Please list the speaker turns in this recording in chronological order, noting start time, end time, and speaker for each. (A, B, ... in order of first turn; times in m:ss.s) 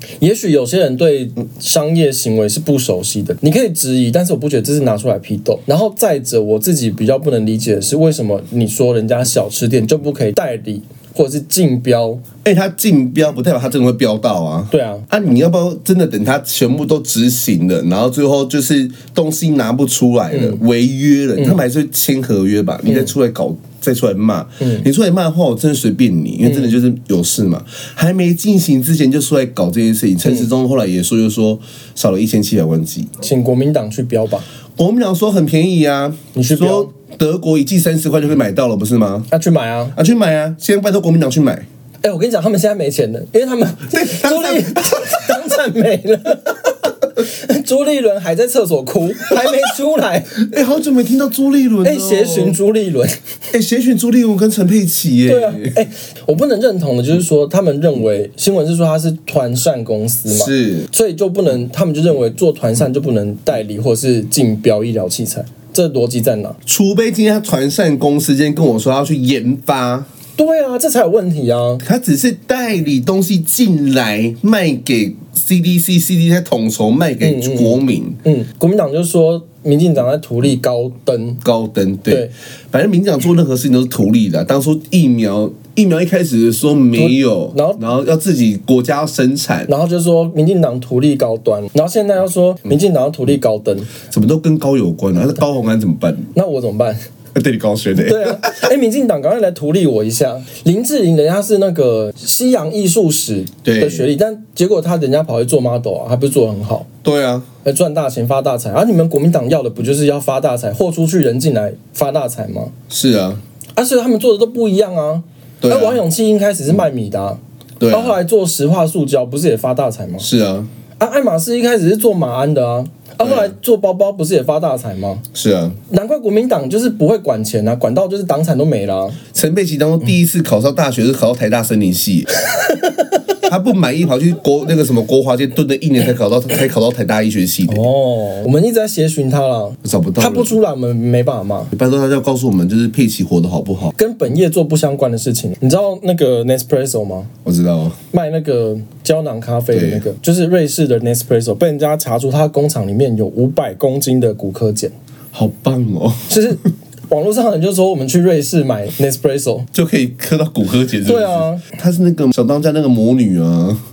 0:00.2-0:12.2 A
0:12.4-0:33.1 B
0:14.7-0:15.1 A
0:20.3-0:20.6 A
0:24.6-0:24.9 A
0:33.2-0:34.5 A
0:34.8-0:39.3 B
0:36.4-0:36.9 A
0:39.3-0:40.0 A
0:40.0-0:41.7 B
0:42.0-0:50.4 A
0:43.9-0:45.4 B
0:50.4-0:52.6 B
0:51.8-0:53.2 A
0:53.5-0:55.8 B
0:55.3-1:06.6 A
1:00.3-1:00.9 B
1:06.7-1:10.1 B
1:10.4-1:11.8 A
1:11.8-1:18.2 B
1:17.2-1:21.4 A
1:21.4-1:29.7 B
1:27.0-1:27.8 A
1:29.7-1:33.9 A
1:34.1-1:36.3 B
1:36.3-1:37.0 A
1:37.3-1:38.7 B
1:38.0-1:46.9 A
1:43.6-1:44.1 B
1:47.0-1:47.5 B
1:47.6-1:52.7 A
1:52.9-1:53.4 B
1:53.8-2:00.3 A
1:55.6-1:56.0 B
1:57.8-1:58.2 B
2:00.2-2:00.7 B
2:01.0-2:05.2 A
2:03.2-2:03.5 B
2:05.3-2:05.8 B
2:05.9-2:09.2 A
2:09.3-2:12.3 B
2:12.5-2:13.2 A
2:13.5-2:17.8 B
2:17.7-2:21.7 A
2:19.8-2:20.6 B
2:21.7-2:23.9 B
2:24.0-2:27.3 A
2:27.4-2:28.0 B
2:28.1-2:34.9 A
2:29.7-2:30.0 B
2:35.3-2:36.5 B
2:36.3-2:39.7 A
2:39.7-2:43.8 B
2:41.0-2:41.6 A